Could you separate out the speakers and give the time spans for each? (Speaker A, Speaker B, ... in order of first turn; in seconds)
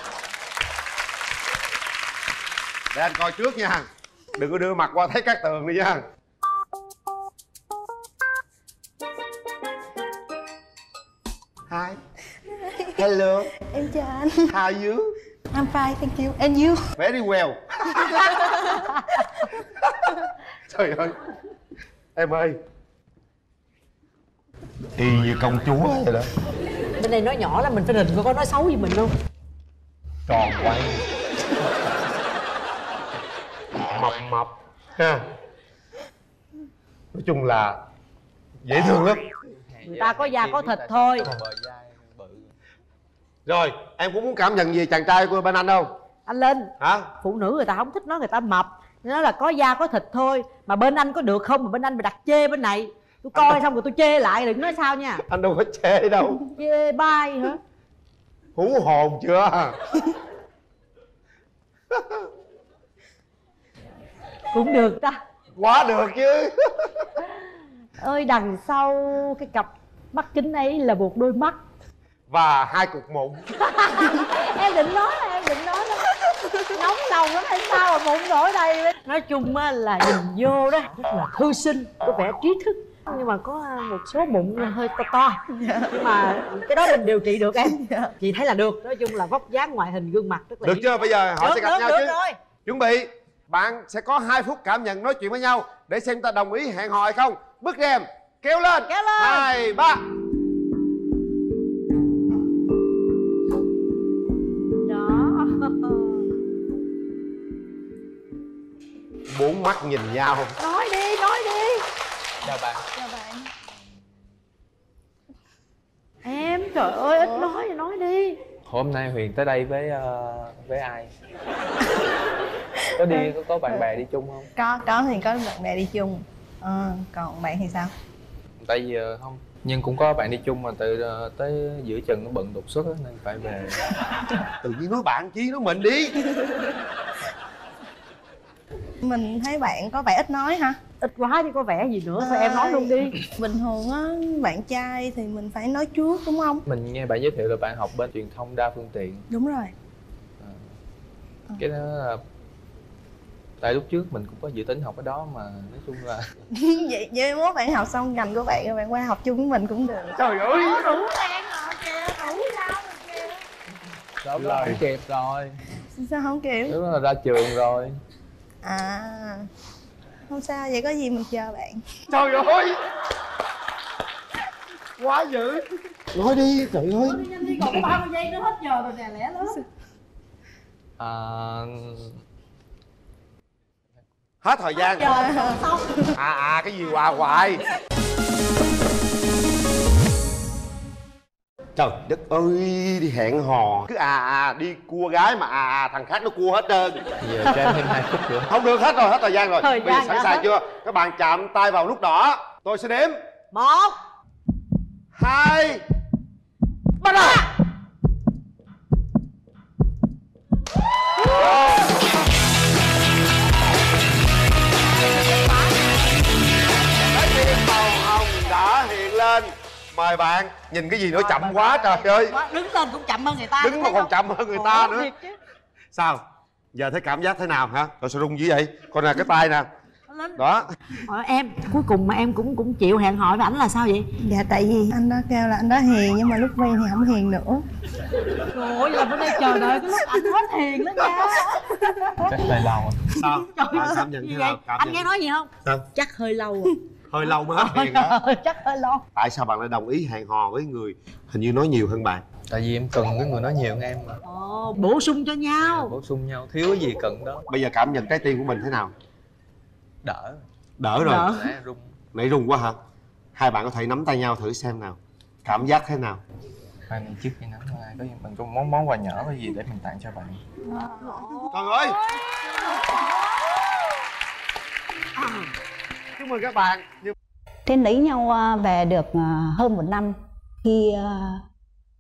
Speaker A: 2.9-6.0, 11.7-12.0, 13.0-13.5, 14.5-15.2, 17.0-18.5, 20.7-21.2, 22.2-22.6, 25.0-26.3, 33.9-35.2, 37.1-37.8, 38.6-39.3, 43.5-45.9, 46.8-47.1, 53.3-53.6, 55.3-56.4, 58.6-59.8, 61.9-62.2, 65.6-67.0, 72.3-73.5, 90.6-100.0, 109.3-110.6, 134.6-136.2, 160.2-160.8, 164.4-164.8, 172.1-172.8, 175.0-177.2, 184.4-185.2, 186.2-187.6, 191.8-197.0, 198.5-203.2, 205.2-205.8, 211.3-211.8, 217.0-222.4, 223.6-225.1, 225.9-226.2, 226.7-229.7, 230.4-230.7, 243.2-245.1, 247.1-248.2, 249.2-252.2, 257.5-258.9, 260.8-261.3, 262.1-262.8, 263.4-266.2, 271.5-272.0, 276.2-277.1
Speaker B: 13.6-14.6, 15.5-16.8, 85.5-86.2, 87.6-88.2, 112.9-113.4, 117.1-117.5, 124.6-127.9, 139.0-140.8, 142.2-146.6, 149.3-149.7, 156.5-163.3, 166.0-166.8, 168.6-169.5, 170.3-171.8, 185.2-186.1, 234.2-237.7
Speaker C: 27.0-29.1, 39.9-41.3, 46.3-55.2, 56.6-57.6, 64.5-65.2, 68.0-71.6, 73.6-76.1, 76.7-92.4, 98.9-99.5, 104.9-105.4, 110.6-111.8, 116.2-118.4, 141.0-143.2, 160.6-160.9, 177.0-179.6, 185.2-185.8, 199.6-200.4, 203.5-204.0, 207.0-207.5, 221.3-225.3, 230.1-230.4, 231.1-234.1, 238.5-241.6, 243.4-246.8, 247.6-249.0, 254.2-255.9
Speaker D: 30.3-31.0, 39.6-42.5, 112.4-112.8, 118.7-121.1, 123.0-124.5, 128.6-133.9, 146.7-149.3, 151.6-152.2, 153.6-156.3, 164.2-165.6, 166.7-168.0, 181.0-182.2, 197.2-198.5, 242.3-243.1, 252.5-254.2, 255.6-257.4, 260.0-260.4, 261.0-261.9, 266.9-270.4
Speaker E: 277.7-281.4